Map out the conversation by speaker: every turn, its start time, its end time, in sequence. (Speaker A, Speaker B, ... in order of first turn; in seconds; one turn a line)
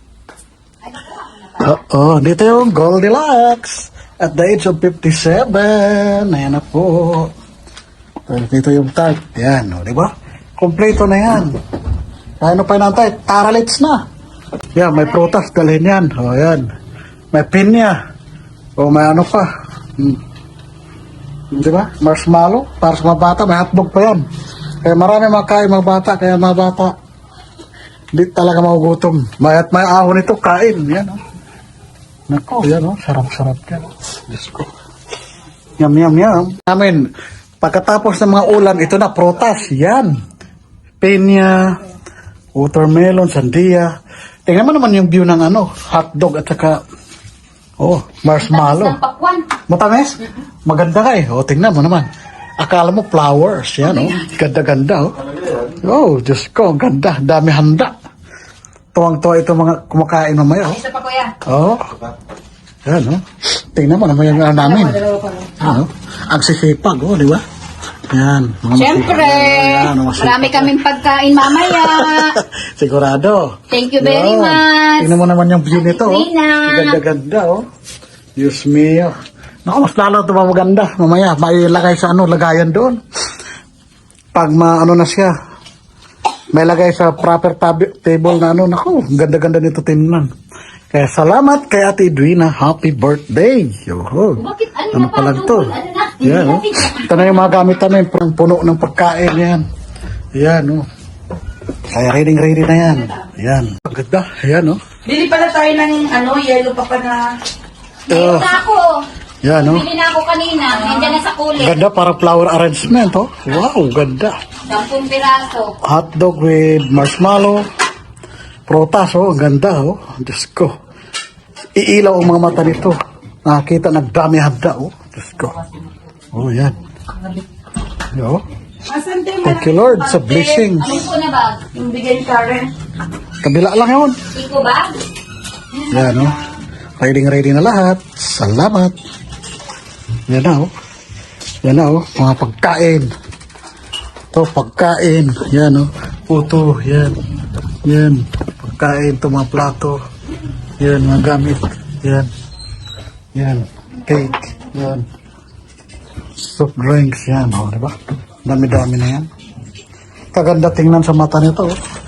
Speaker A: 0.9-1.4
Speaker B: 1.5-7.3
Speaker B: 8.3-11.5
Speaker B: 12.4-14.0
Speaker B: 14.8-16.7
Speaker B: 17.3-17.9
Speaker B: 18.8-19.4
Speaker B: 21.5-24.2
Speaker B: 24.8-26.9
Speaker B: 28.1-31.2
Speaker B: 32.3-34.7
Speaker B: 35.8-37.0
Speaker B: 37.6-40.1
Speaker B: 41.0-41.7
Speaker B: 42.6-43.9
Speaker B: 44.5-46.8
Speaker B: 47.8-49.0
Speaker A: 48.4-49.5
Speaker B: 49.7-50.1
Speaker B: 50.6-52.1
Speaker B: 52.6-57.9
Speaker A: 53.8-54.3
Speaker B: 58.9-60.8
Speaker A: 60.7-61.4
Speaker B: 61.4-61.8
Speaker B: 62.9-63.2
Speaker B: 63.7-65.0
Speaker A: 64.4-65.7
Speaker B: 65.6-67.4
Speaker B: 68.1-70.8
Speaker A: 68.7-72.4
Speaker B: 71.4-77.6
Speaker A: 73.7-75.2
Speaker A: 75.7-77.0
Speaker B: 78.4-79.1
Speaker B: 79.7-83.0
Speaker B: 84.3-85.3
Speaker B: 86.5-90.3
Speaker B: 90.9-99.6
Speaker A: 94.4-97.6
Speaker B: 100.4-100.8
Speaker B: 101.9-104.8
Speaker C: 105.0-107.2
Speaker B: 108.1-108.5
Speaker A: 108.1-109.0
Speaker B: 109.4-109.9
Speaker A: 109.6-111.8
Speaker C: 110.7-111.2
Speaker B: 111.6-114.3
Speaker A: 114.7-115.7
Speaker B: 115.9-117.6
Speaker B: 118.7-120.7
Speaker B: 121.8-125.6
Speaker B: 126.3-126.8
Speaker B: 128.1-128.4
Speaker C: 128.9-130.9
Speaker B: 129.4-131.0
Speaker A: 130.8-131.6
Speaker C: 131.7-132.7
Speaker B: 133.4-134.2
Speaker A: 134.3-134.9
Speaker B: 135.9-136.3
Speaker B: 137.0-138.9
Speaker B: 140.3-140.7
Speaker B: 141.6-143.1
Speaker B: 144.3-147.2
Speaker B: 147.8-150.0
Speaker B: 150.8-152.3
Speaker B: 153.3-155.0
Speaker B: 156.4-157.9
Speaker B: 158.4-159.3
Speaker B: 160.3-161.7